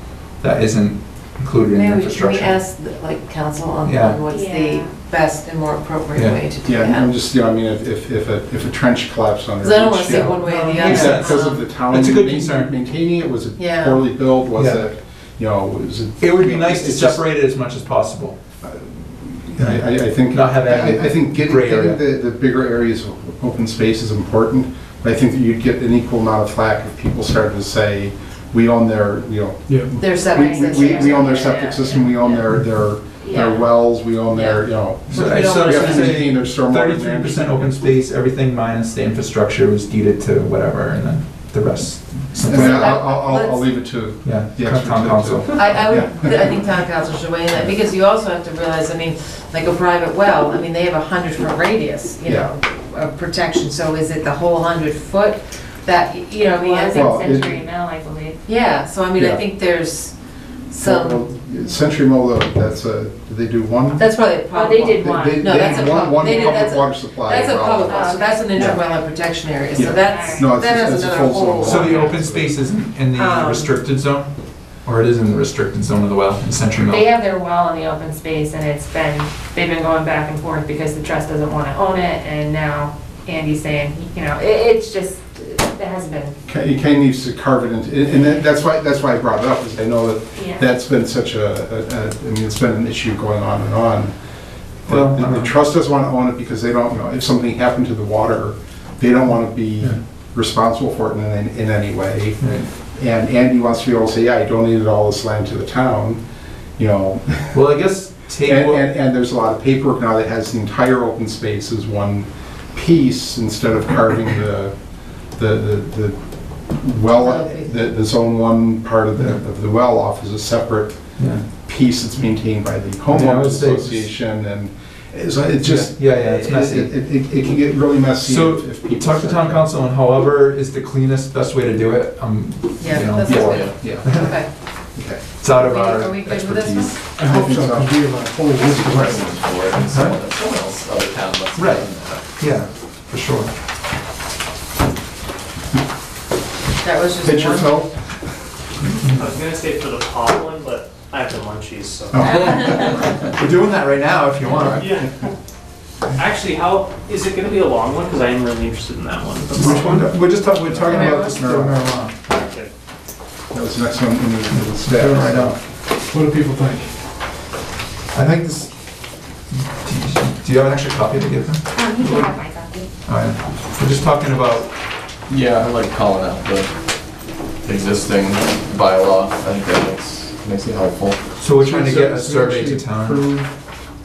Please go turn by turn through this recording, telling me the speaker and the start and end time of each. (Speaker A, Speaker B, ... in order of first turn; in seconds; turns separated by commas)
Speaker A: 0.4-2.6, Speaker B: 1.7-7.1, Speaker A: 3.8-4.2, Speaker C: 4.3-5.0, Speaker D: 6.6-17.2, Speaker B: 9.6-11.6, Speaker A: 10.0-12.7, Speaker C: 10.5-11.1, Speaker B: 13.6-14.0, Speaker A: 14.6-14.8, Speaker A: 16.2-18.4, Speaker D: 18.6-37.7, Speaker A: 19.6-22.0, Speaker B: 30.0-31.7, Speaker C: 30.2-32.4, Speaker C: 33.2-33.6, Speaker B: 33.3-33.7, Speaker B: 34.3-36.1, Speaker A: 35.1-43.0, Speaker D: 42.4-46.6, Speaker B: 42.4-43.7, Speaker A: 44.2-45.9, Speaker B: 45.5-57.2, Speaker D: 52.2-52.5, Speaker C: 56.4-58.4, Speaker D: 56.9-57.6, Speaker B: 58.5-60.1, Speaker D: 59.1-59.4, Speaker B: 60.7-61.2, Speaker D: 60.8-64.1, Speaker B: 64.0-72.2, Speaker C: 64.5-66.7, Speaker D: 65.0-68.8, Speaker C: 67.3-69.2, Speaker D: 69.8-72.5, Speaker C: 69.8-70.6, Speaker A: 71.6-74.3, Speaker B: 73.1-73.7, Speaker A: 74.8-77.1, Speaker C: 76.8-86.4, Speaker D: 86.5-94.1, Speaker C: 90.4-90.7, Speaker D: 94.8-106.2, Speaker A: 94.9-95.5, Speaker A: 102.4-102.7, Speaker D: 106.8-107.6, Speaker A: 107.5-108.8, Speaker D: 108.5-114.7, Speaker D: 115.3-116.2, Speaker D: 116.7-129.7, Speaker B: 117.2-117.9, Speaker A: 121.2-121.5, Speaker A: 123.1-124.1, Speaker A: 125.6-126.9, Speaker A: 128.2-134.3, Speaker B: 132.8-134.5, Speaker D: 133.2-134.3, Speaker E: 133.4-133.7, Speaker D: 134.9-135.2, Speaker A: 135.4-136.9, Speaker B: 135.6-137.1, Speaker D: 137.2-138.7, Speaker F: 137.2-139.3, Speaker E: 138.7-142.2, Speaker A: 139.8-140.2, Speaker A: 141.5-141.8, Speaker A: 142.4-143.5, Speaker B: 146.8-147.8, Speaker D: 147.2-147.9, Speaker G: 149.0-152.9, Speaker D: 152.1-152.7, Speaker A: 152.2-155.1, Speaker G: 154.7-155.1, Speaker G: 156.2-160.1, Speaker A: 159.5-162.3, Speaker D: 160.7-161.9, Speaker B: 160.9-161.4, Speaker G: 162.3-162.7, Speaker D: 163.5-165.6, Speaker A: 164.5-165.6, Speaker F: 166.1-166.9, Speaker A: 168.1-168.7, Speaker A: 169.5-172.3, Speaker C: 171.7-172.9, Speaker A: 173.0-174.7, Speaker E: 175.3-176.7, Speaker E: 177.6-181.2, Speaker A: 181.4-183.3, Speaker D: 181.6-183.5